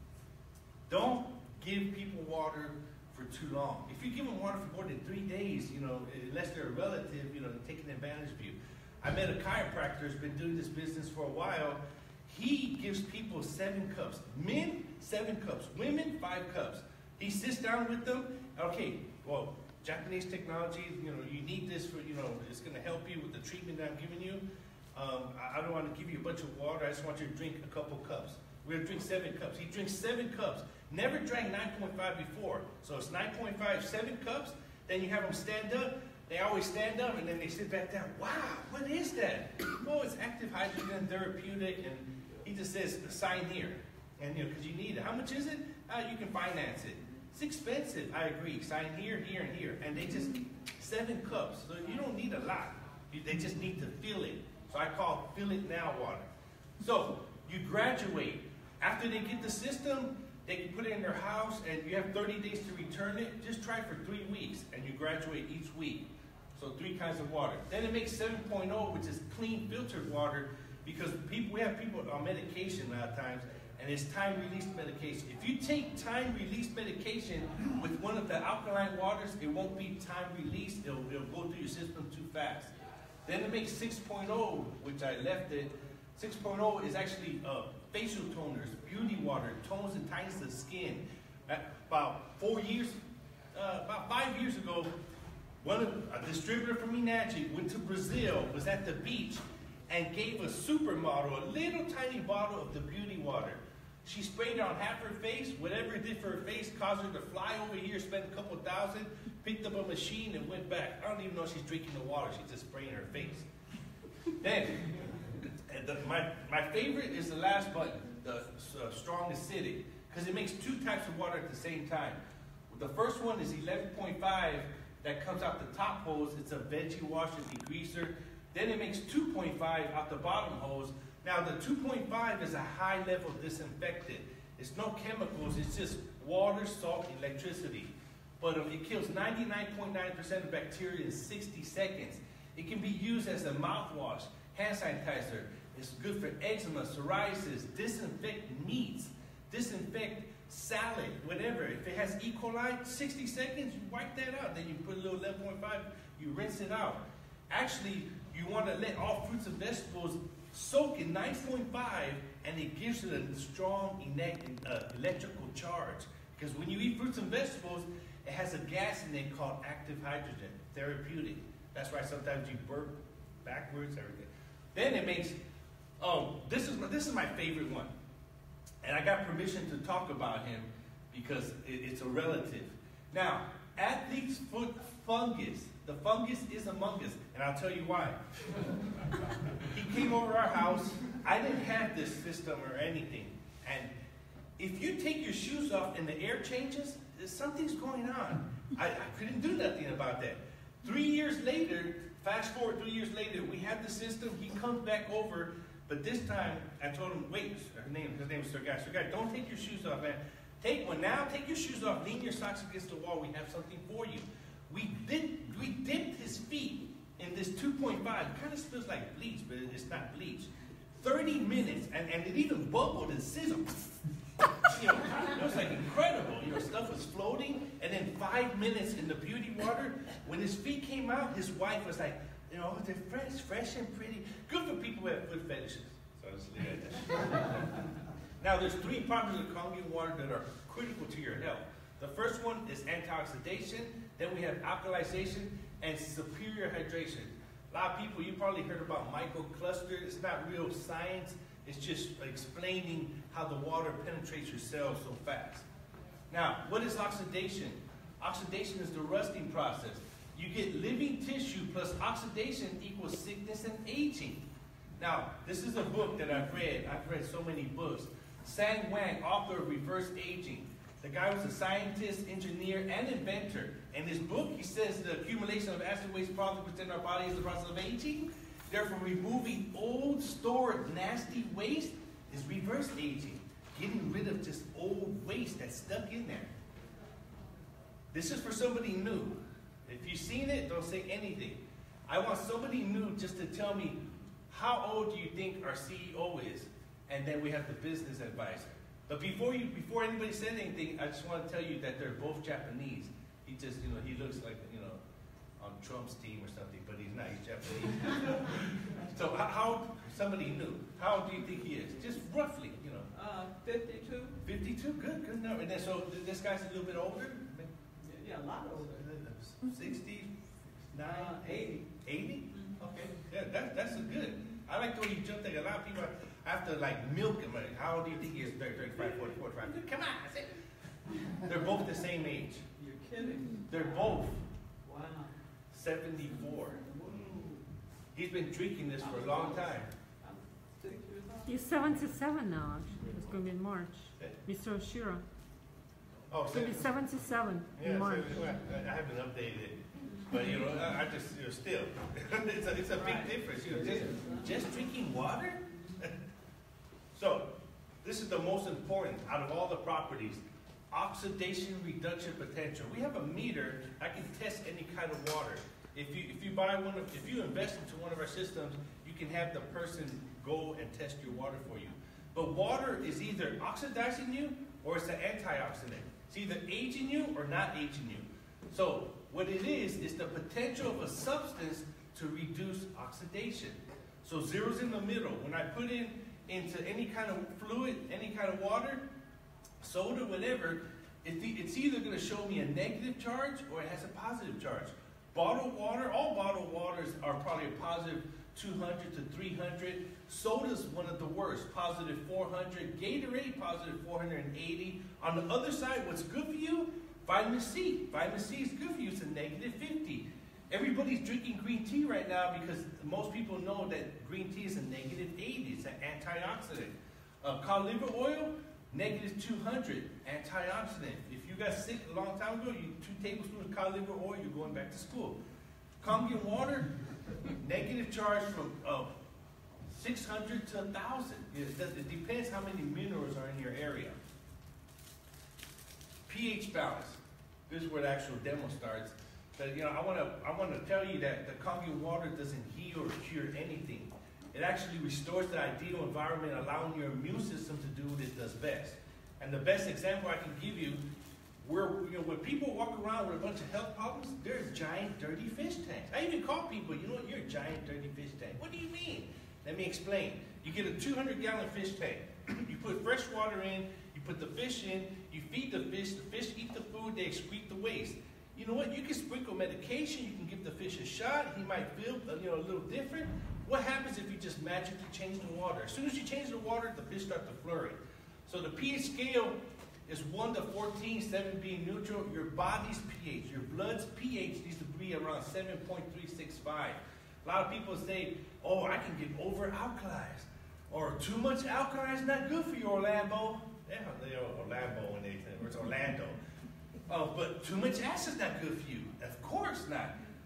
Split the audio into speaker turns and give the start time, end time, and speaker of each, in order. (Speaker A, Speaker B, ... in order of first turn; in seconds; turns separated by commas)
Speaker A: 0.9-24.4, Speaker A: 24.9-56.2, Speaker A: 56.8-82.7, Speaker A: 83.2-93.0, Speaker A: 93.5-94.9, Speaker A: 95.6-113.5, Speaker A: 114.4-115.0, Speaker A: 115.6-175.4, Speaker A: 176.0-177.9, Speaker A: 178.8-188.2, Speaker A: 189.6-193.9, Speaker A: 194.6-224.0, Speaker A: 224.7-237.7, Speaker A: 238.4-255.7, Speaker A: 256.3-264.4, Speaker A: 265.0-286.5, Speaker A: 288.1-305.0, Speaker A: 305.6-313.1, Speaker B: 313.1-314.4, Speaker A: 314.4-317.7, Speaker B: 318.0-319.0, Speaker A: 318.9-330.6, Speaker B: 321.1-321.8, Speaker B: 322.5-322.8, Speaker A: 331.4-332.6, Speaker B: 332.8-333.8, Speaker A: 333.7-334.4, Speaker B: 334.8-335.3, Speaker A: 335.7-336.8, Speaker B: 336.9-337.6, Speaker A: 338.1-339.9, Speaker B: 339.0-339.7, Speaker B: 340.2-341.6, Speaker C: 341.4-345.2, Speaker A: 346.3-346.9, Speaker C: 346.5-348.4, Speaker A: 347.8-356.1, Speaker B: 352.9-354.5, Speaker A: 357.1-389.0, Speaker A: 389.8-425.4, Speaker A: 426.0-426.9, Speaker A: 427.6-429.1, Speaker A: 429.9-434.1, Speaker A: 436.3-451.0, Speaker A: 451.6-496.4, Speaker A: 497.1-500.2